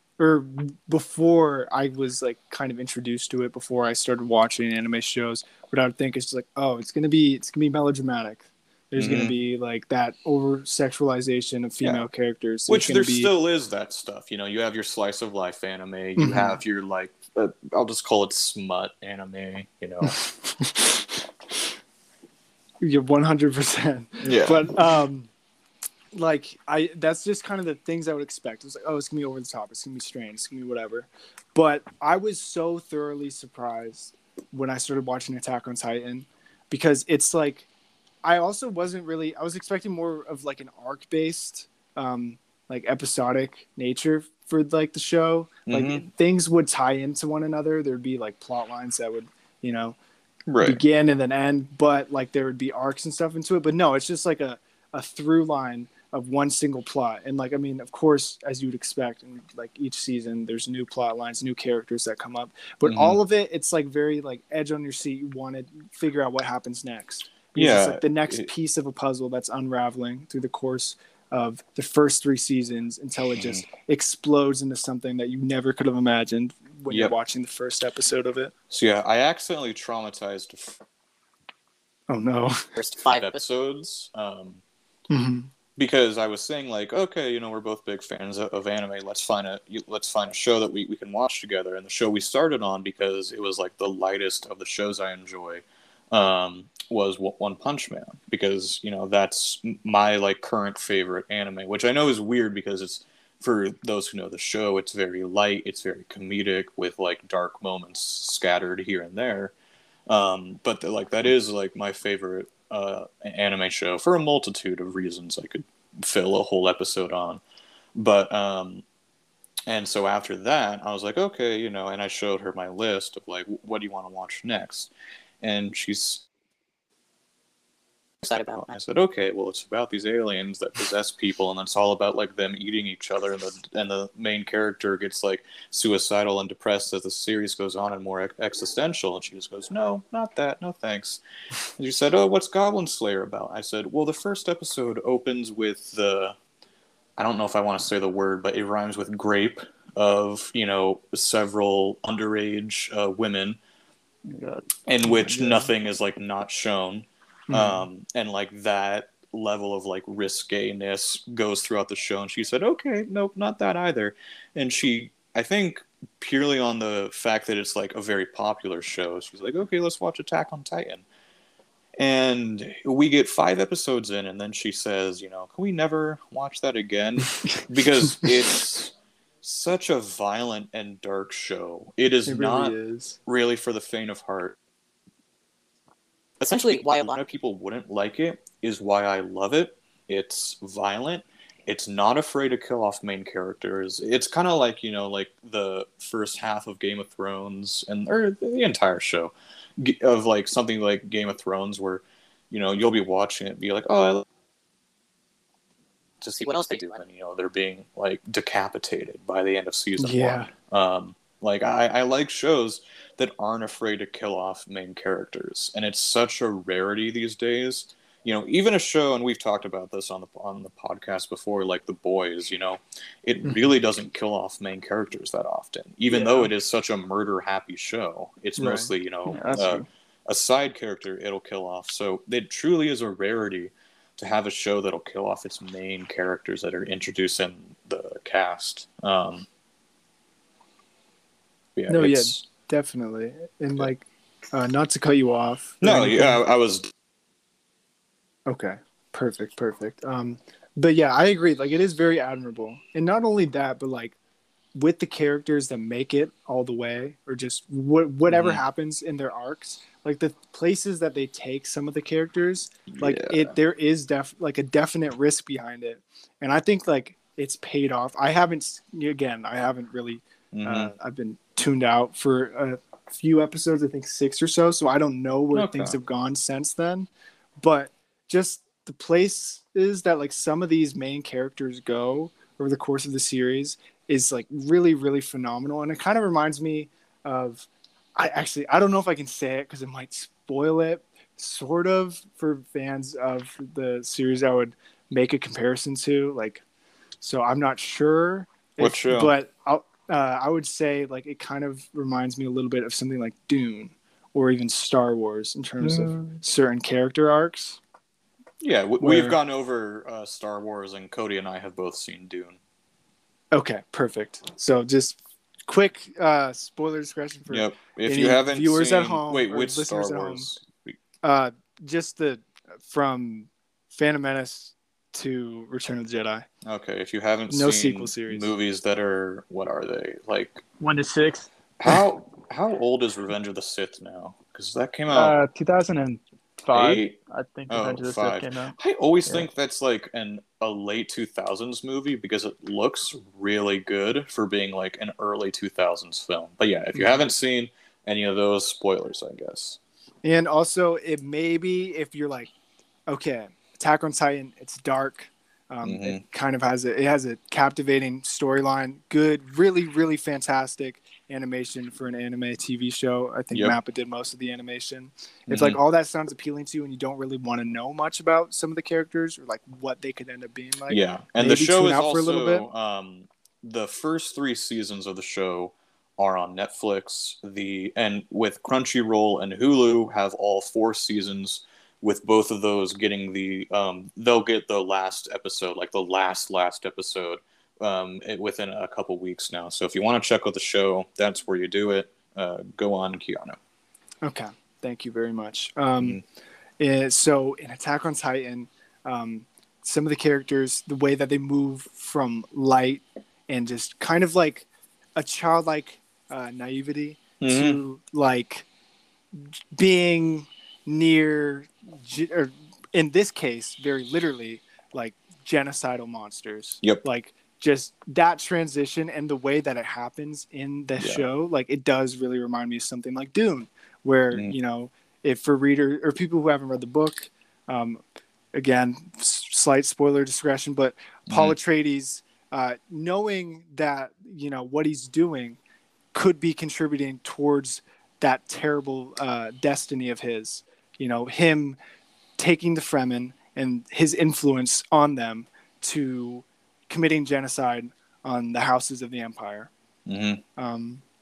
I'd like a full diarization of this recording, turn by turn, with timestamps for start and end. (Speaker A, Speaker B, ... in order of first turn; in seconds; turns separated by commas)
Speaker A: 0.2-13.3, Speaker B: 8.9-9.4, Speaker B: 12.7-20.2, Speaker A: 16.2-16.6, Speaker A: 20.0-21.0, Speaker A: 22.8-25.3, Speaker B: 24.2-24.7, Speaker A: 26.1-37.7, Speaker A: 38.2-50.0, Speaker B: 45.7-46.0, Speaker B: 50.5-50.8, Speaker A: 50.6-78.5, Speaker B: 62.8-63.2, Speaker B: 67.5-68.5, Speaker B: 73.4-73.6, Speaker B: 78.7-80.8, Speaker A: 82.1-82.6, Speaker C: 82.8-83.4, Speaker B: 83.1-84.6, Speaker A: 85.1-85.5, Speaker B: 85.8-109.5, Speaker B: 110.1-117.4, Speaker B: 117.9-118.8, Speaker B: 119.7-126.2, Speaker C: 128.2-128.7, Speaker B: 128.2-141.2, Speaker B: 141.8-146.3, Speaker B: 147.2-153.6, Speaker D: 154.3-154.7, Speaker B: 154.9-171.0, Speaker A: 155.1-155.7, Speaker A: 157.5-157.8, Speaker B: 172.0-184.5, Speaker A: 182.2-183.2, Speaker C: 186.4-187.2, Speaker B: 186.5-204.2, Speaker B: 206.2-239.5, Speaker C: 206.4-207.0, Speaker A: 210.0-210.5, Speaker A: 226.1-226.4, Speaker A: 228.6-228.9, Speaker D: 229.3-229.9, Speaker B: 241.8-242.5, Speaker A: 241.9-246.4, Speaker B: 245.8-246.9, Speaker A: 248.4-254.2, Speaker A: 254.7-296.6, Speaker B: 258.3-258.6, Speaker B: 262.9-263.5, Speaker B: 270.5-270.9, Speaker B: 275.5-276.0, Speaker A: 297.2-307.8, Speaker B: 298.8-299.3, Speaker B: 305.8-306.3, Speaker B: 308.6-312.6, Speaker A: 309.0-309.4, Speaker A: 313.5-320.5, Speaker B: 317.5-321.0, Speaker A: 321.2-326.4, Speaker B: 326.6-330.6, Speaker A: 327.5-328.5, Speaker D: 330.8-331.5, Speaker B: 331.8-335.3, Speaker D: 335.1-338.7, Speaker B: 336.7-337.2, Speaker B: 337.7-349.8, Speaker A: 346.9-347.2, Speaker A: 350.2-352.5, Speaker A: 353.1-372.6, Speaker B: 355.8-356.2, Speaker B: 363.5-363.8, Speaker B: 365.5-365.8, Speaker B: 370.9-393.6, Speaker A: 394.2-396.2, Speaker A: 396.8-408.6, Speaker B: 407.4-407.8, Speaker A: 409.3-435.6, Speaker B: 421.0-421.2, Speaker A: 436.1-441.8, Speaker A: 442.4-449.7, Speaker B: 450.1-450.4, Speaker A: 450.6-451.0